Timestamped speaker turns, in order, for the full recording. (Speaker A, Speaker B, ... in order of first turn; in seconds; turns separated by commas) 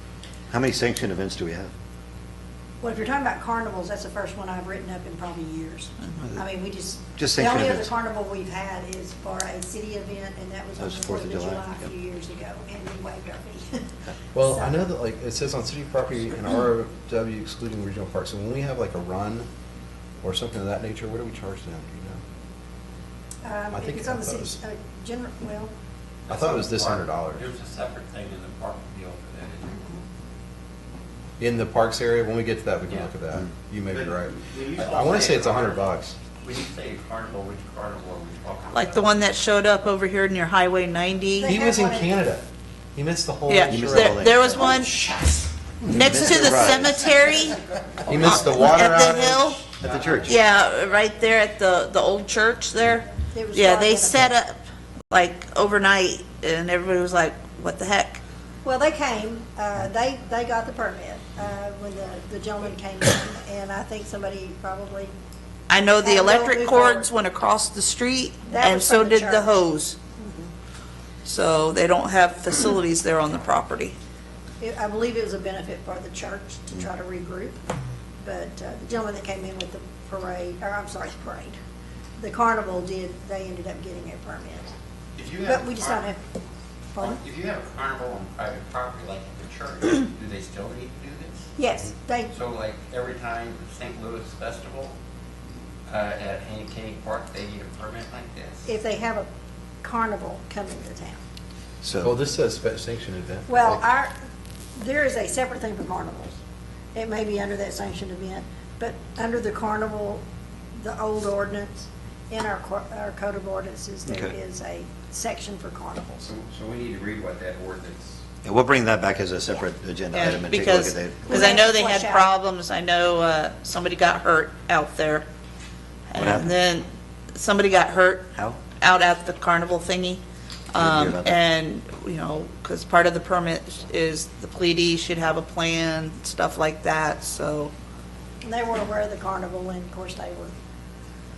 Speaker A: 0.5-1.7, Speaker B: 2.8-13.8, Speaker A: 7.2-7.9, Speaker A: 10.8-11.8, Speaker C: 14.3-19.5, Speaker C: 20.2-22.2, Speaker B: 23.4-25.7, Speaker C: 23.7-24.6, Speaker D: 26.3-30.0, Speaker C: 26.3-27.5, Speaker C: 31.4-36.2, Speaker D: 33.9-39.1, Speaker E: 38.7-41.5, Speaker B: 41.4-42.2, Speaker C: 41.5-42.4, Speaker C: 43.0-44.3, Speaker E: 43.5-45.0, Speaker A: 43.7-45.1, Speaker A: 45.8-47.0, Speaker E: 45.9-47.6, Speaker C: 48.1-49.6, Speaker E: 48.2-49.7, Speaker A: 49.8-50.4, Speaker D: 49.8-50.3, Speaker E: 50.2-58.2, Speaker B: 53.3-54.3, Speaker B: 58.6-65.1, Speaker E: 65.7-70.0, Speaker B: 66.0-67.1, Speaker B: 68.5-69.5, Speaker B: 70.2-70.5, Speaker E: 71.2-74.0, Speaker B: 74.6-77.6, Speaker B: 78.2-81.6, Speaker B: 82.2-84.7, Speaker D: 85.2-86.1, Speaker B: 85.4-86.2, Speaker B: 86.9-87.2, Speaker D: 87.0-91.4, Speaker B: 91.6-92.3, Speaker D: 92.3-95.0, Speaker D: 95.9-98.7, Speaker B: 98.7-99.3, Speaker B: 99.8-101.2, Speaker A: 101.8-102.1, Speaker C: 102.0-103.8, Speaker B: 103.5-104.1, Speaker B: 104.8-106.4, Speaker B: 106.9-110.2, Speaker B: 110.8-116.3, Speaker A: 114.1-114.3, Speaker D: 116.2-118.2, Speaker A: 118.4-121.2, Speaker E: 120.1-125.3, Speaker B: 121.3-122.3, Speaker E: 126.1-137.7, Speaker A: 126.2-126.5, Speaker A: 130.8-131.4, Speaker B: 138.4-140.5